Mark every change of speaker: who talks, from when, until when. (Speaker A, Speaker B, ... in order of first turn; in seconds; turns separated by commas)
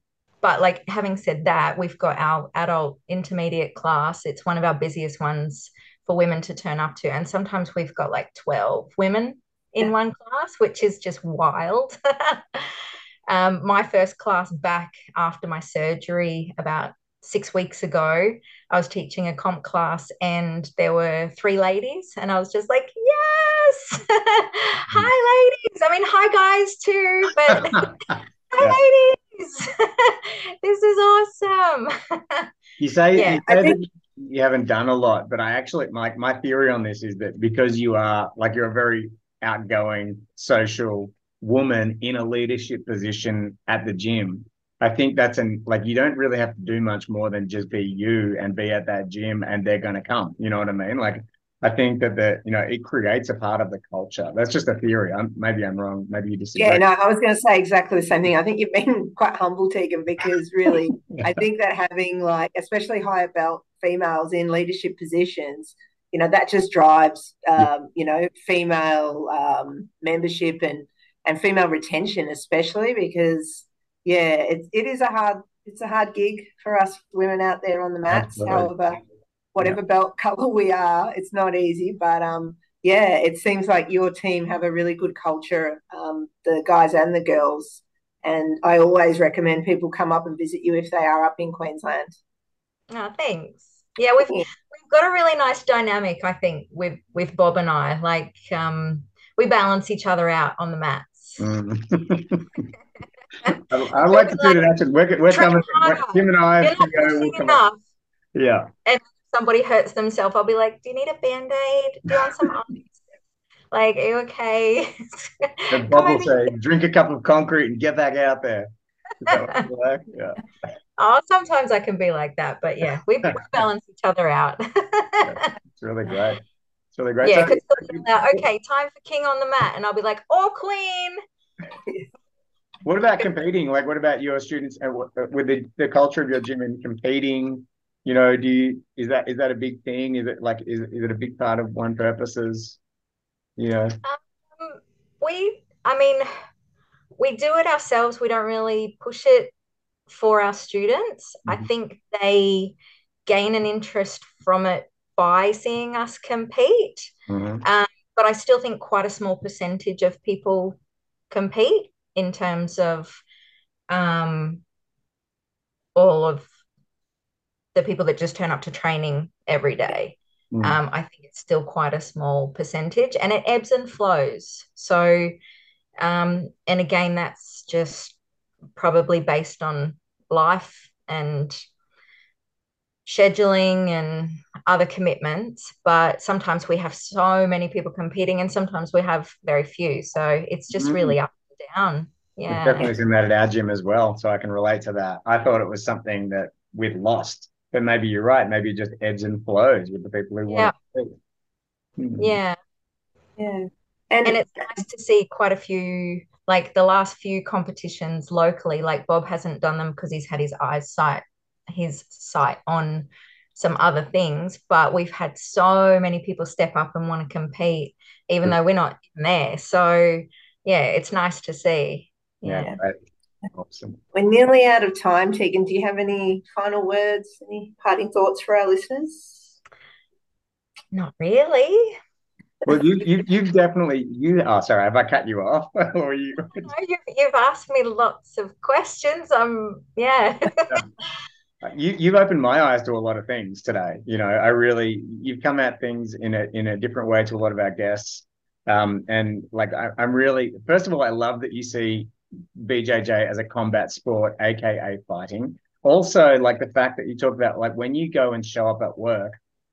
Speaker A: 0.4-32.5, Speaker B: 27.7-28.8, Speaker B: 32.8-56.8, Speaker A: 33.1-33.4, Speaker C: 33.5-33.8, Speaker C: 56.6-79.0, Speaker B: 61.1-61.4, Speaker B: 78.1-78.7, Speaker C: 79.5-92.1, Speaker A: 92.9-101.4, Speaker B: 101.4-102.7, Speaker A: 103.4-104.7, Speaker B: 103.6-107.6, Speaker A: 105.3-107.8, Speaker B: 108.3-108.7, Speaker A: 108.8-113.1, Speaker A: 113.7-116.5, Speaker B: 115.7-118.7, Speaker B: 119.2-120.4, Speaker A: 119.2-119.6, Speaker A: 121.0-125.5, Speaker B: 125.2-126.4, Speaker B: 126.9-128.0, Speaker A: 127.2-131.2, Speaker B: 132.8-142.8, Speaker B: 143.6-144.0, Speaker A: 144.0-146.2, Speaker A: 147.2-149.5, Speaker A: 150.1-152.7, Speaker A: 153.2-157.1, Speaker B: 157.3-157.6, Speaker A: 157.6-160.8, Speaker A: 161.3-163.2, Speaker A: 163.9-164.6, Speaker A: 165.9-166.5, Speaker A: 167.7-175.3, Speaker B: 170.5-170.8, Speaker A: 176.0-178.2, Speaker A: 178.8-181.6, Speaker A: 183.1-192.9, Speaker B: 190.7-191.2, Speaker B: 192.5-201.2, Speaker A: 200.5-200.7, Speaker B: 202.0-202.4, Speaker A: 202.2-202.6, Speaker C: 203.4-204.8, Speaker A: 204.2-222.8, Speaker B: 222.4-223.0, Speaker B: 223.5-224.0, Speaker C: 224.1-229.6, Speaker A: 230.9-232.0, Speaker B: 232.6-236.7, Speaker A: 236.6-240.8, Speaker B: 241.6-259.4